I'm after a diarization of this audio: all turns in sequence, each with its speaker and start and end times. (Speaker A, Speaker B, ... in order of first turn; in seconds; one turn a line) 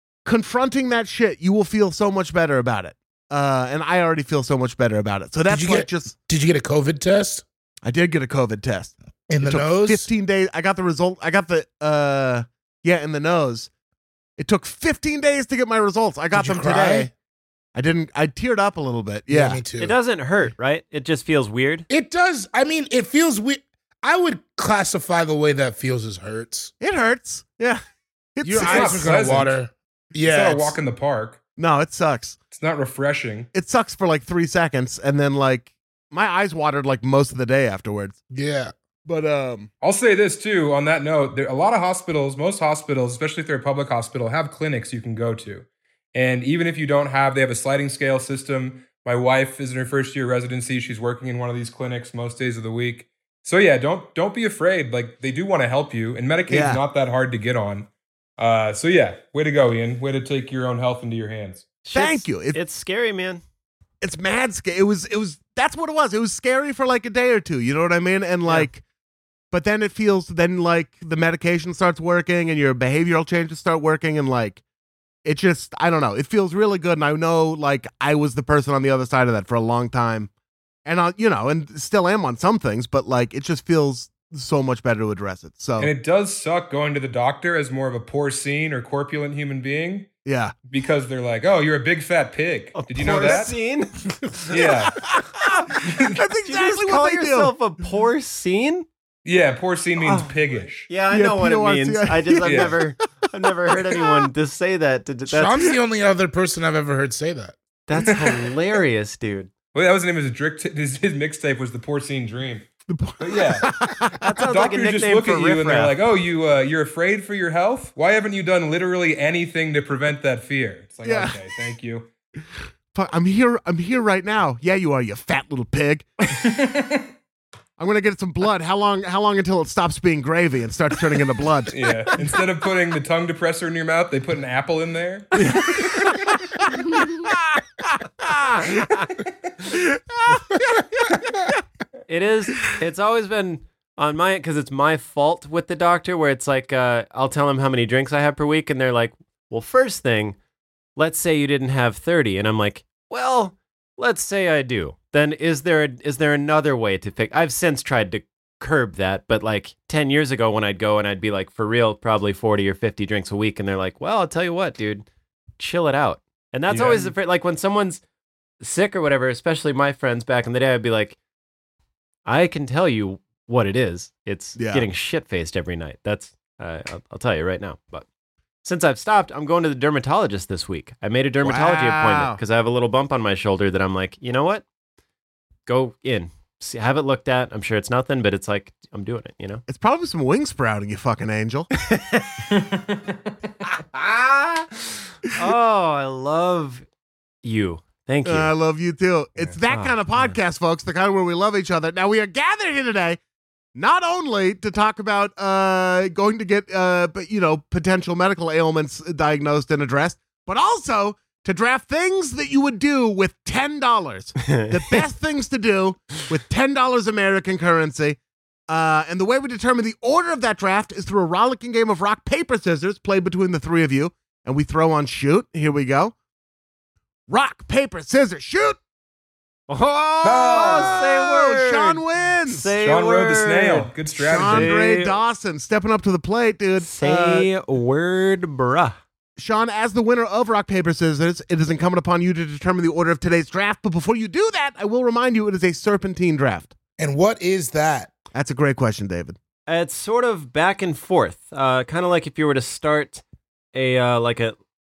Speaker A: 0.2-6.1
Speaker B: 5.5-7.4
Speaker A: 7.8-13.7
Speaker B: 9.3-10.1
Speaker A: 14.4-17.1
Speaker B: 16.3-17.1
Speaker A: 17.7-19.6
Speaker B: 19.3-19.9
Speaker C: 19.8-21.9
Speaker B: 21.9-26.7
Speaker A: 26.8-27.8
Speaker A: 28.4-29.3
Speaker B: 28.4-30.7
Speaker D: 28.6-29.6
Speaker D: 30.2-31.4
Speaker A: 31.6-32.4
Speaker D: 32.5-33.5
Speaker A: 33.5-38.2
Speaker B: 38.3-38.7
Speaker A: 39.0-39.7
Speaker D: 39.8-61.7
Speaker A: 56.5-56.8
Speaker C: 61.8-63.4
Speaker A: 61.9-62.6
Speaker A: 64.0-68.8
Speaker A: 69.5-74.6
Speaker A: 75.2-80.3
Speaker A: 80.8-85.9
Speaker D: 85.8-90.1
Speaker A: 90.2-90.5
Speaker D: 90.7-93.5
Speaker C: 92.7-94.5
Speaker D: 94.5-95.0
Speaker A: 95.0-97.5
Speaker C: 96.4-98.9
Speaker D: 99.2-100.8
Speaker C: 100.0-105.6
Speaker A: 101.1-102.9
Speaker D: 102.4-102.8
Speaker A: 103.7-104.2
Speaker B: 105.3-107.5
Speaker C: 107.9-109.5
Speaker D: 108.1-108.3
Speaker D: 109.7-112.7
Speaker A: 112.9-114.2
Speaker D: 113.2-113.7
Speaker C: 114.2-115.9
Speaker D: 114.4-122.1
Speaker A: 121.0-121.4
Speaker A: 122.9-126.3
Speaker D: 126.4-127.1
Speaker A: 127.8-131.8
Speaker D: 131.7-136.0
Speaker A: 137.1-137.6
Speaker A: 138.2-138.8
Speaker A: 139.7-140.6
Speaker C: 142.1-150.4
Speaker C: 150.9-165.1
Speaker C: 165.6-168.0
Speaker D: 166.7-167.1
Speaker C: 168.6-171.2
Speaker C: 172.2-178.1
Speaker A: 174.6-174.9
Speaker C: 178.6-184.6
Speaker A: 181.4-182.4
Speaker C: 185.7-189.6
Speaker A: 189.7-191.7
Speaker C: 191.8-192.4
Speaker C: 193.9-196.8
Speaker C: 197.4-198.5
Speaker A: 198.2-203.2
Speaker C: 199.7-200.3
Speaker A: 203.7-218.2
Speaker A: 218.7-226.1
Speaker A: 227.3-228.8
Speaker C: 229.7-235.2
Speaker D: 230.2-231.0
Speaker A: 230.5-232.7
Speaker D: 232.8-234.7
Speaker A: 234.2-237.5
Speaker C: 236.8-239.0
Speaker A: 239.4-246.7
Speaker B: 247.0-248.1
Speaker A: 248.3-249.4
Speaker C: 249.7-253.2
Speaker C: 253.7-254.5